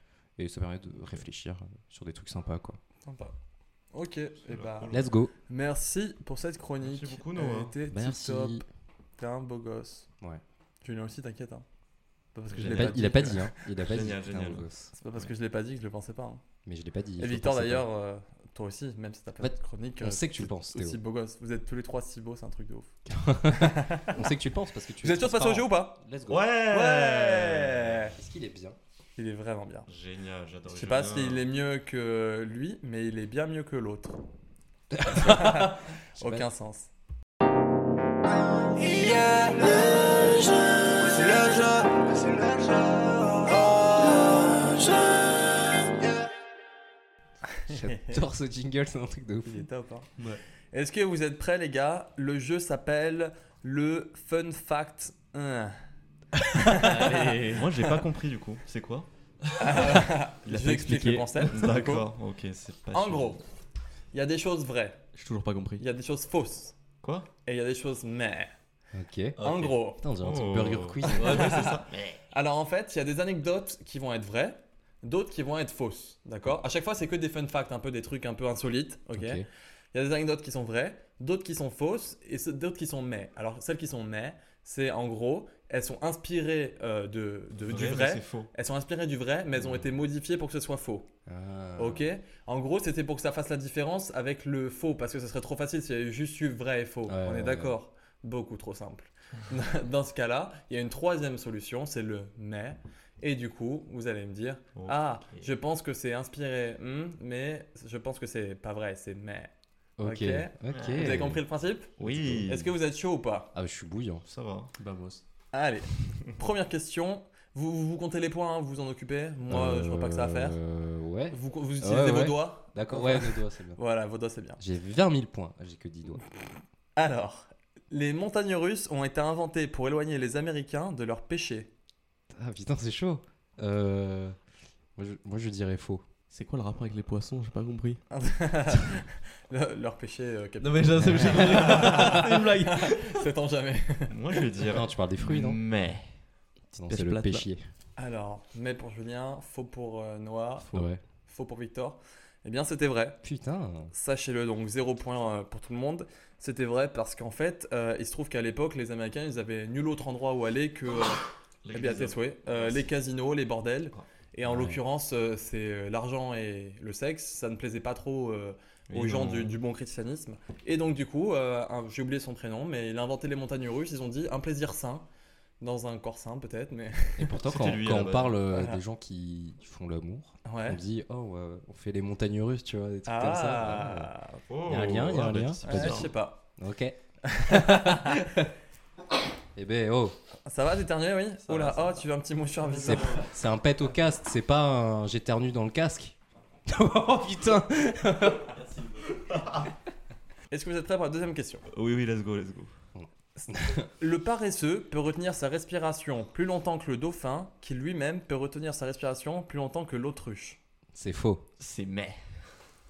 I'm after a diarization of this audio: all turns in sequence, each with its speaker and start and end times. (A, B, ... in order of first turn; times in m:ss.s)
0:00.4-0:02.8 A
0:03.0-0:03.3 B
0:03.9-0:05.0 B
0:04.4-0:05.1 C
0:04.9-0:05.3 A
0:05.5-0:08.6 B
0:06.8-0:07.7 C
0:07.9-0:08.6 A
0:09.2-0:10.1 B
0:10.8-0:11.6 B
0:12.3-0:13.6 B
0:12.5-0:15.3 C
0:12.6-0:14.9 A
0:15.0-0:16.4 B
0:16.6-0:17.8 A
0:17.2-0:24.2 B
0:19.4-0:21.0 A
0:23.1-0:26.5 A
0:25.0-0:26.0 B
0:26.3-0:28.1 C
0:26.7-0:28.1 B
0:28.1-0:28.8 A
0:29.2-0:29.9 B
0:29.9-0:31.5 C
0:30.7-0:34.2 B
0:34.9-0:36.4 A
0:35.0-0:36.9 B
0:38.8-0:46.2 D
0:47.5-0:48.2 B
0:47.7-0:49.7 A
0:49.4-0:50.1 B
0:50.7-0:55.7 B
0:56.4-0:57.9 B
0:56.7-0:57.7 E
0:57.5-0:59.1 C
0:59.6-1:02.1 B
0:59.7-1:03.4 C
1:02.9-1:03.4 B
1:04.1-1:05.1 B
1:05.1-1:05.8 E
1:05.8-1:06.8 B
1:07.0-1:07.3 C
1:07.4-1:08.5 B
1:08.9-1:11.4 A
1:09.4-1:09.7 E
1:09.4-1:10.0 B
1:10.2-1:12.1 C
1:11.0-1:31.1 B
1:11.2-1:11.6 E
1:19.1-1:19.4 A
1:27.6-1:28.5 C
1:29.6-1:29.8 A
1:31.3-1:32.0 A
1:31.8-1:49.5 B
1:37.1-1:37.7 A
1:44.7-1:45.5 C
1:50.0-1:51.4 A
1:50.0-1:53.5 B
1:50.7-1:51.2 C
1:52.0-1:52.7 C
1:52.0-1:52.5 A
1:53.5-1:54.2 A
1:54.2-1:54.7 C
1:54.8-1:55.2 E
1:55.5-2:00.6 B
1:59.5-2:03.8 A
2:01.3-2:04.6 B
2:04.6-2:06.2 A
2:07.0-2:11.7 B
2:12.3-2:14.4 A
2:15.0-2:16.0 A
2:16.3-2:18.0 E
2:18.1-2:24.4 B
2:20.6-2:23.2 E
2:21.0-2:22.1 A
2:24.1-2:26.1 C
2:24.7-2:25.6 A
2:26.7-2:27.7 A
2:26.8-2:27.5 E
2:28.0-2:30.7 B
2:30.7-2:31.0 A
2:31.2-2:33.2 B
2:33.2-2:33.9 A
2:33.9-2:55.0 B
2:41.6-2:42.9 C
2:44.4-2:44.8 A
2:48.9-2:49.6 C
2:55.6-2:57.3 B
2:57.2-3:04.1 A
2:57.4-2:58.4 C
2:58.5-2:58.8 B
3:00.4-3:00.8 B
3:03.1-3:04.4 B
3:04.5-3:06.1 C
3:04.6-3:08.5 A
3:05.6-3:06.4 B
3:07.3-3:08.2 B
3:09.6-3:10.1 A
3:10.4-3:13.3 B
3:12.8-3:16.2 A
3:16.7-3:18.5 A
3:18.4-3:19.3 E
3:19.3-3:19.7 C
3:20.5-3:21.6 B
3:21.7-3:22.7 C
3:22.9-3:23.9 A
3:23.4-3:30.6 B
3:30.9-3:31.4 A
3:31.6-3:32.4 C